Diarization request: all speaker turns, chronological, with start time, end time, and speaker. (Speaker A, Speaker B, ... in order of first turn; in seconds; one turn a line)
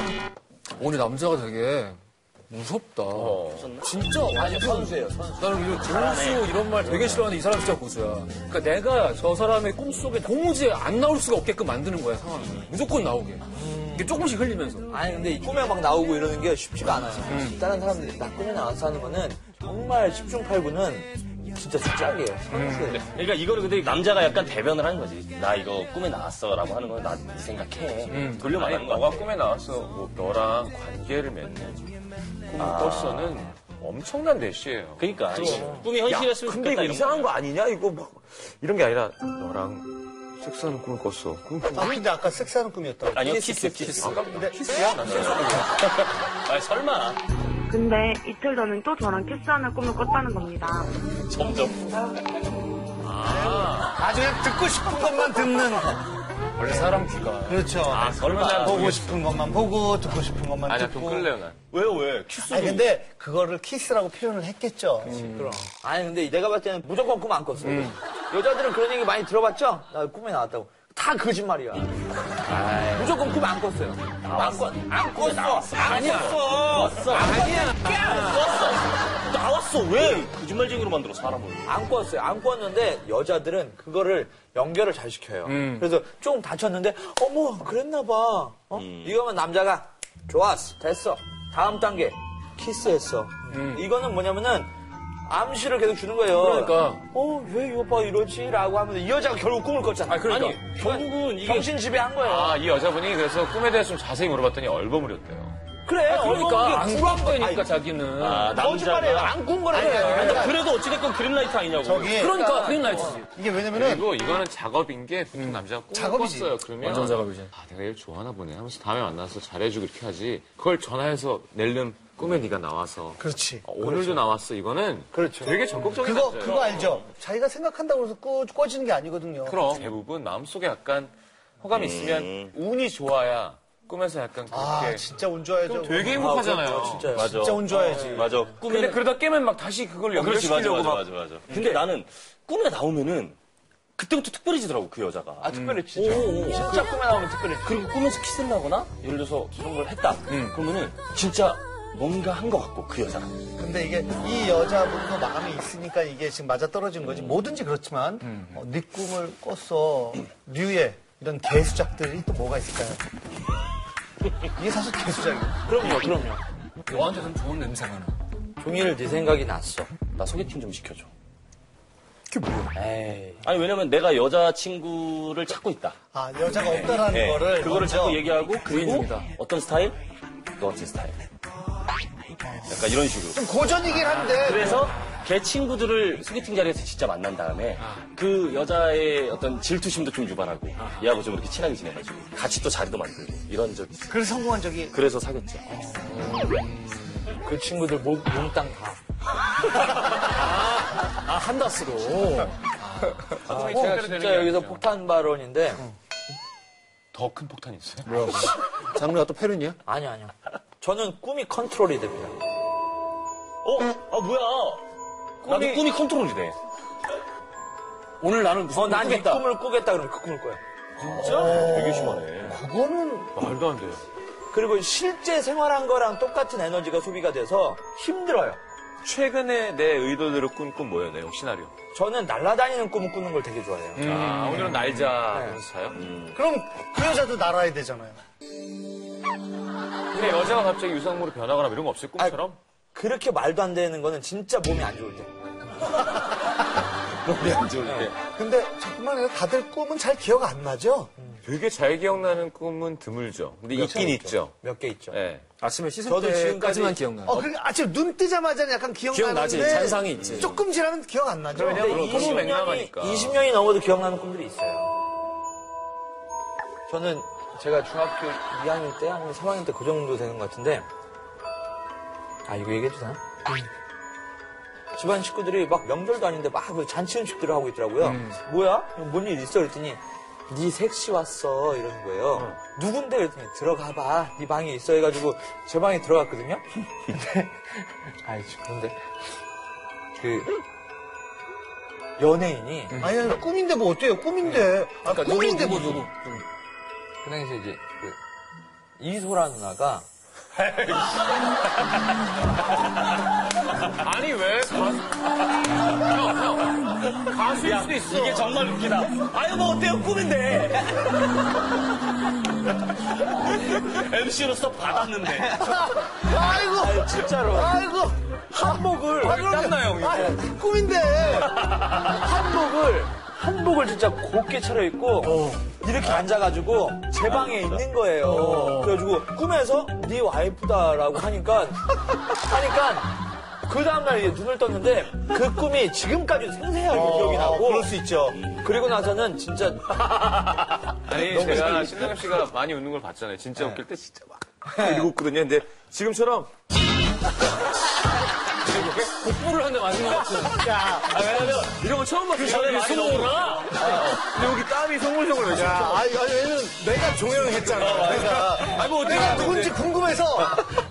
Speaker A: 0.7-14.9
Speaker B: 3.1-3.7
Speaker C: 3.4-4.1
Speaker D: 4.3-5.3
Speaker C: 5.1-7.3
Speaker D: 13.5-14.1
Speaker D: 14.9-23.0
Speaker A: 17.3-17.6
Speaker A: 22.5-22.9
Speaker C: 22.9-29.3
Speaker A: 28.1-28.4
Speaker B: 28.1-31.9
Speaker B: 32.5-42.0
Speaker C: 32.5-33.5
Speaker C: 35.0-37.4
Speaker D: 35.3-35.9
Speaker E: 41.7-43.3
Speaker C: 43.1-44.5
Speaker D: 43.2-44.1
Speaker B: 44.0-45.9
Speaker E: 44.2-44.6
Speaker C: 45.0-47.2
Speaker F: 47.7-50.9
Speaker C: 51.3-52.1
Speaker B: 53.0-54.0
Speaker E: 53.3-56.1
Speaker B: 56.6-59.3
Speaker E: 56.6-61.3
Speaker C: 58.1-58.9
Speaker B: 60.6-61.6
Speaker C: 61.7-62.9
Speaker E: 62.4-65.2
Speaker D: 65.0-72.0
Speaker A: 65.2-65.6
Speaker A: 67.6-68.0
Speaker C: 72.5-73.2
Speaker D: 72.7-78.2
Speaker C: 74.2-81.7
Speaker A: 75.9-76.3
Speaker A: 77.1-78.4
Speaker D: 81.6-94.7
Speaker A: 85.4-85.9
Speaker C: 88.7-89.2
Speaker A: 93.5-93.9
Speaker D: 95.2-102.6
Speaker A: 96.3-97.0
Speaker A: 100.1-100.7
Speaker C: 100.2-101.7
Speaker B: 102.2-105.6
Speaker D: 105.8-107.7
Speaker A: 106.0-108.5
Speaker C: 108.2-109.4
Speaker D: 108.5-110.5
Speaker E: 109.7-110.6
Speaker A: 109.9-110.5
Speaker C: 110.2-112.2
Speaker E: 111.8-112.4
Speaker A: 112.1-113.3
Speaker D: 112.2-113.2
Speaker E: 113.1-114.1
Speaker B: 113.7-127.0
Speaker E: 115.9-116.6
Speaker A: 116.8-117.5
Speaker E: 123.2-124.2
Speaker D: 125.1-125.6
Speaker E: 126.0-129.6
Speaker B: 129.4-135.0
Speaker C: 131.7-132.5
Speaker E: 134.5-136.4
Speaker B: 135.6-137.2
Speaker D: 136.1-138.6
Speaker C: 137.1-139.1
Speaker E: 137.1-138.3
Speaker B: 138.6-141.8
Speaker C: 140.1-143.4
Speaker C: 143.9-146.8
Speaker D: 145.4-147.7
Speaker A: 145.6-146.3
Speaker C: 147.6-153.4
Speaker B: 150.3-150.6
Speaker E: 153.6-163.0
Speaker C: 157.1-157.3
Speaker E: 164.4-165.6
Speaker D: 165.7-166.9
Speaker A: 166.9-168.2
Speaker D: 168.6-170.1
Speaker C: 170.1-171.1
Speaker A: 172.3-172.7
Speaker C: 173.4-176.0
Speaker E: 176.1-178.2
Speaker C: 176.8-180.0
Speaker A: 178.6-179.3
Speaker C: 180.6-181.2
Speaker C: 182.6-183.4
Speaker E: 183.3-184.8
Speaker A: 184.0-184.8
Speaker C: 184.3-194.1
Speaker E: 194.1-195.0
Speaker C: 194.9-195.7
Speaker D: 195.8-196.1
Speaker A: 196.1-197.3
Speaker D: 197.4-199.0
Speaker A: 199.8-203.6
Speaker B: 203.3-204.9
Speaker D: 203.5-205.8
Speaker B: 207.1-208.3
Speaker A: 208.1-209.8
Speaker D: 209.8-212.3
Speaker C: 213.6-214.8
Speaker C: 215.4-216.6
Speaker B: 215.4-215.8
Speaker A: 218.2-219.4
Speaker D: 218.7-221.6
Speaker E: 221.0-223.3
Speaker C: 221.1-222.6
Speaker B: 223.3-224.0
Speaker D: 224.5-228.6
Speaker B: 229.0-231.7
Speaker D: 231.9-234.1
Speaker B: 233.9-236.0
Speaker A: 234.0-235.0
Speaker D: 235.1-235.6
Speaker C: 235.9-236.4
Speaker E: 236.3-238.2
Speaker B: 240.1-242.6
Speaker D: 242.2-245.3
Speaker E: 247.3-251.1
Speaker B: 247.4-248.1
Speaker D: 247.7-248.2
Speaker B: 251.4-254.6
Speaker D: 253.7-255.2
Speaker B: 255.1-255.4
Speaker A: 255.6-257.4
Speaker D: 256.0-257.1
Speaker E: 257.2-262.4
Speaker A: 259.1-260.6
Speaker B: 261.5-263.4
Speaker D: 261.5-264.9
Speaker D: 266.9-270.9
Speaker D: 272.4-273.6
Speaker D: 274.9-289.0
Speaker A: 278.0-278.4
Speaker D: 290.1-290.5
Speaker D: 292.2-293.0
Speaker E: 293.0-296.1
Speaker A: 294.5-296.4
Speaker D: 297.2-298.2
Speaker D: 299.0-300.1
Speaker C: 300.6-300.9
Speaker B: 303.8-305.2
Speaker B: 305.8-308.6
Speaker C: 307.1-310.9
Speaker D: 309.8-311.0
Speaker C: 313.7-315.6
Speaker E: 315.4-321.5
Speaker D: 316.3-317.8
Speaker D: 318.5-319.5
Speaker B: 319.1-320.3
Speaker C: 321.8-322.1
Speaker D: 322.1-337.9
Speaker A: 325.3-325.6
Speaker C: 327.2-327.8
Speaker A: 328.2-329.0
Speaker E: 336.9-338.4
Speaker C: 338.4-338.6
Speaker D: 338.6-340.0
Speaker B: 340.9-346.5
Speaker C: 341.4-341.9
Speaker D: 344.8-345.1
Speaker B: 348.6-349.3
Speaker A: 349.0-354.0
Speaker E: 350.5-351.2
Speaker B: 351.2-356.1
Speaker C: 351.3-351.7
Speaker C: 352.3-353.8
Speaker E: 353.8-354.1
Speaker E: 355.5-360.7
Speaker B: 357.5-359.6
Speaker C: 357.8-358.9
Speaker A: 359.0-359.7